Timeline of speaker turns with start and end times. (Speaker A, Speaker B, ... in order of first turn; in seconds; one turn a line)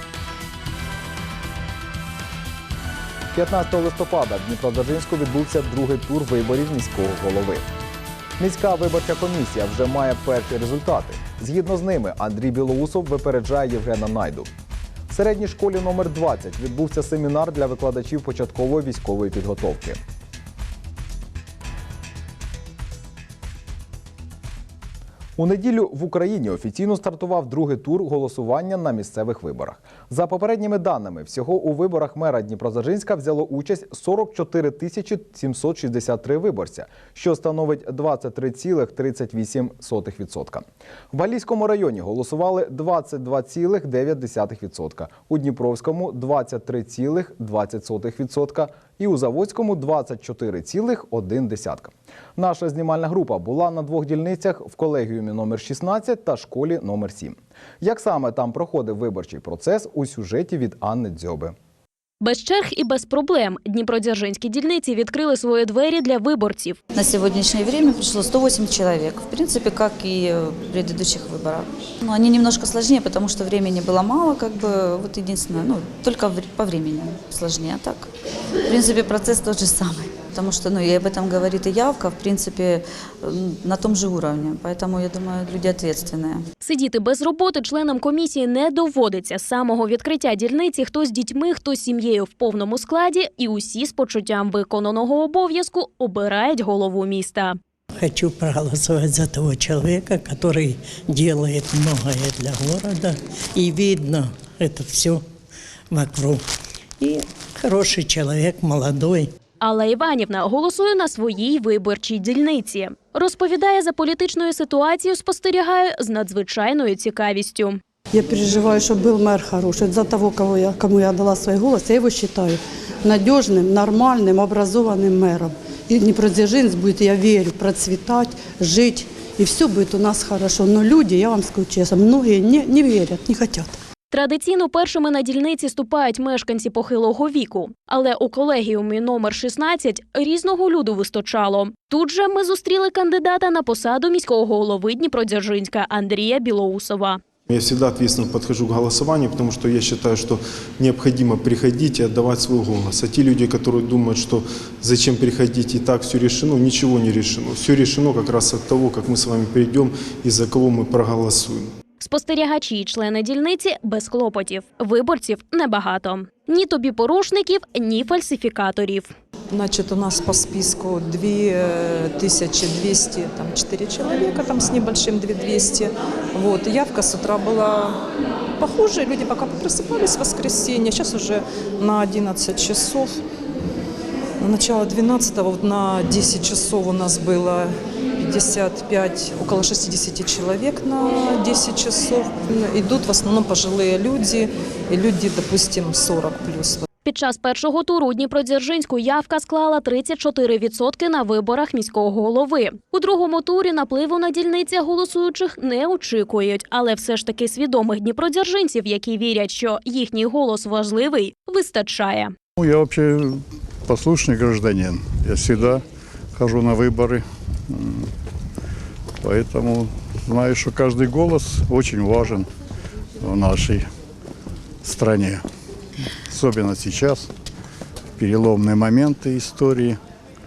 Speaker A: 3.3-7.7
Speaker A: 8.4-14.5
Speaker A: 15.1-20.0
Speaker A: 25.4-61.5
Speaker B: 62.2-66.8
Speaker C: 67.0-78.0
Speaker C: 78.7-86.4
Speaker B: 86.6-97.6
Speaker D: 98.0-105.2
Speaker D: 105.9-106.4
Speaker D: 107.0-109.2
Speaker B: 109.6-117.8
Speaker E: 118.1-133.7
Speaker B: 134.1-147.2
Speaker F: 147.5-161.7
Speaker B: 162.0-169.1
Speaker G: 169.5-178.0
Speaker G: 178.6-183.2
Speaker G: 184.4-196.8
Speaker B: 197.0-212.3
Speaker H: 212.6-213.3
Speaker H: 213.9-215.8
Speaker H: 216.4-217.2
Speaker H: 219.2-222.4
Speaker H: 223.2-223.8
Speaker H: 224.8-225.4
Speaker H: 226.3-227.2
Speaker H: 228.2-229.9